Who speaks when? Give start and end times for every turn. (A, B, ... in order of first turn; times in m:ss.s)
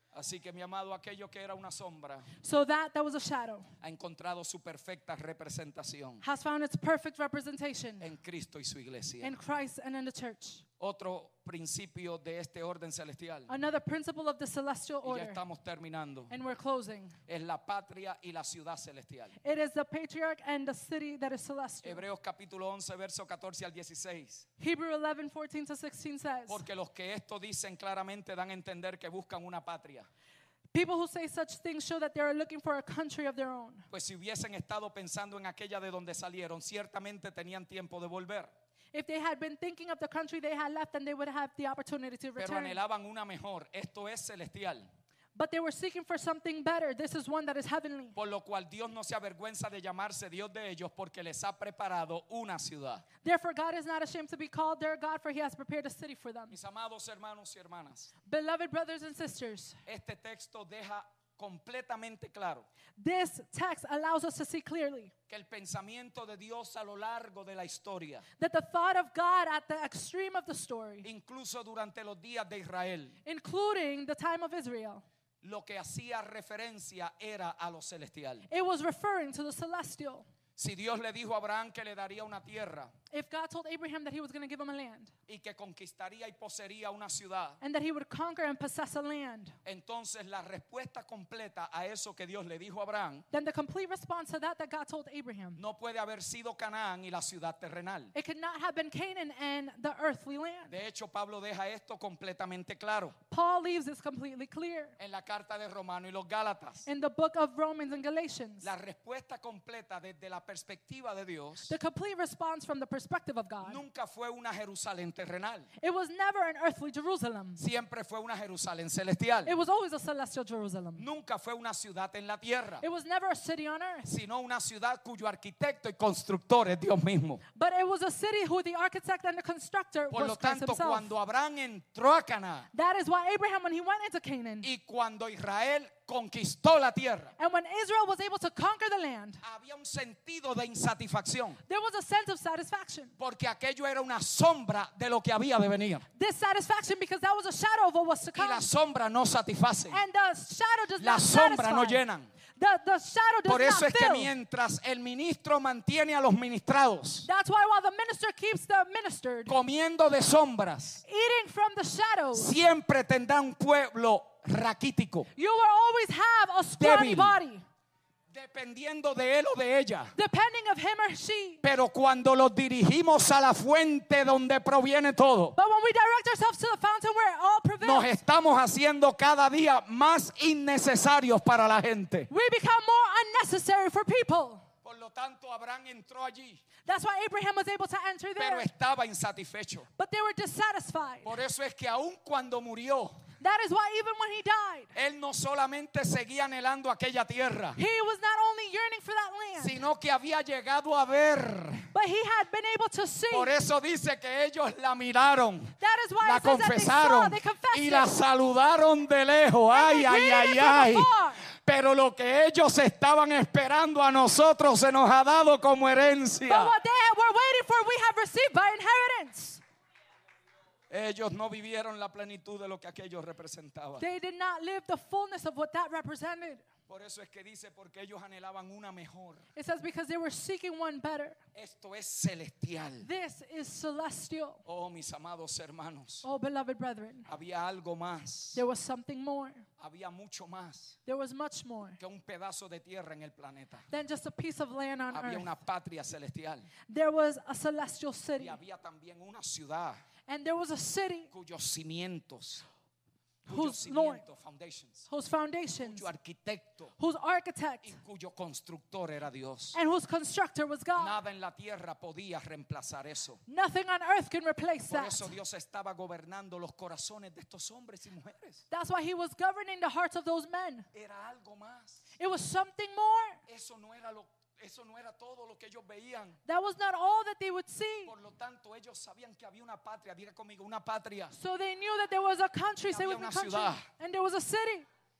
0:00.1-0:02.3 A
0:02.4-0:03.7 B
0:03.8-0:06.2 A
0:06.2-0:08.1 B
0:08.0-0:09.4 A
0:09.2-0:10.6 B
0:10.8-0:13.5 A
0:13.5-0:15.4 B
0:15.0-0:16.3 A
0:16.3-0:17.2 B
0:17.3-0:19.4 A
0:19.4-0:22.0 B
0:21.8-0:24.5 A
0:24.6-0:26.6 B
0:26.5-0:30.1 A
0:30.7-0:33.9 B
0:33.9-0:38.5 A
0:38.9-0:42.8 B
0:42.4-0:44.9 A
0:45.4-0:48.2 B
0:48.1-0:53.0 A
0:53.2-0:56.6 B
0:56.5-0:58.1 A
0:58.2-0:59.8 B
0:59.8-1:02.7 A
1:03.0-1:05.1 B
1:05.3-1:08.2 A
1:08.4-1:11.1 B
1:11.0-1:13.2 A
1:13.2-1:15.0 B
1:15.4-1:18.5 A
1:18.5-1:20.3 B
1:20.6-1:22.9 A
1:23.1-1:25.1 B
1:25.3-1:27.6 A
1:27.6-1:29.6 B
1:29.6-1:33.2 A
1:33.3-1:35.6 B
1:35.6-1:38.1 A
1:38.1-1:40.7 B
1:40.7-1:43.2 A
1:43.3-1:44.9 B
1:45.0-1:46.9 A
1:46.8-1:48.7 B
1:48.6-1:51.7 A
1:51.7-1:53.8 B
1:53.6-1:55.7 A
1:55.8-1:57.6 B
1:57.6-1:59.5 A
1:59.4-2:01.1 B
2:01.0-2:02.8 A
2:02.8-2:04.1 B
2:04.0-2:07.4 A
2:07.5-2:11.1 B
2:10.1-2:12.7 A
2:12.7-2:14.7 B
2:14.6-2:17.3 A
2:17.4-2:19.4 B
2:19.4-2:21.6 A
2:21.7-2:23.1 B
2:23.2-2:26.1 A
2:26.2-2:28.6 B
2:28.4-2:30.0 A
2:29.9-2:32.0 B
2:31.0-2:32.3 A
2:32.6-2:34.3 B
2:33.4-2:37.3 A
2:37.2-2:39.5 B
2:39.5-2:41.0 A
2:41.0-2:42.5 B
2:42.3-2:45.3 A
2:45.4-2:47.6 B
2:46.8-2:47.4 A
2:48.3-2:50.1 A
2:50.1-2:51.6 B
2:51.6-2:55.6 A
2:55.6-2:58.1 B
2:57.8-3:02.3 A
3:02.3-3:04.6 B
3:04.8-3:06.6 A
3:06.8-3:08.7 B
3:08.4-3:09.9 A
3:10.0-3:11.3 B
3:11.2-3:13.2 A
3:13.4-3:14.9 B
3:14.9-3:17.8 A
3:17.8-3:19.8 B
3:19.6-3:21.9 A
3:21.9-3:23.5 B
3:23.3-3:36.7 A
3:25.8-3:28.1 B
3:29.7-3:31.4 B
3:36.4-3:39.6 B
3:40.9-3:44.1 A
3:44.0-3:46.6 B
3:46.9-3:49.5 A
3:49.6-3:51.4 B
3:51.5-3:53.1 A
3:53.0-3:54.6 B
3:54.6-3:56.3 A
3:56.2-3:57.3 B
3:57.3-3:58.6 A
3:58.5-3:59.6 B
3:59.8-4:01.0 A
4:01.1-4:02.0 B
4:02.0-4:03.9 A
4:03.9-4:05.5 B
4:05.1-4:06.7 A
4:06.9-4:08.6 B
4:08.4-4:10.0 A
4:10.3-4:11.3 B
4:11.3-4:12.6 A
4:13.4-4:15.1 A
4:13.5-4:14.2 B
4:15.1-4:16.1 B
4:15.8-4:16.9 A
4:17.0-4:17.9 B
4:17.8-4:19.8 A
4:19.7-4:21.2 B
4:21.0-4:23.4 A
4:23.5-4:25.3 B
4:24.9-4:28.6 A
4:28.7-4:30.9 B
4:30.9-4:32.1 A
4:32.2-4:33.4 B
4:33.4-4:36.4 A
4:36.4-4:38.1 B
4:38.1-4:41.4 A
4:41.3-4:44.9 B
4:42.9-4:43.9 A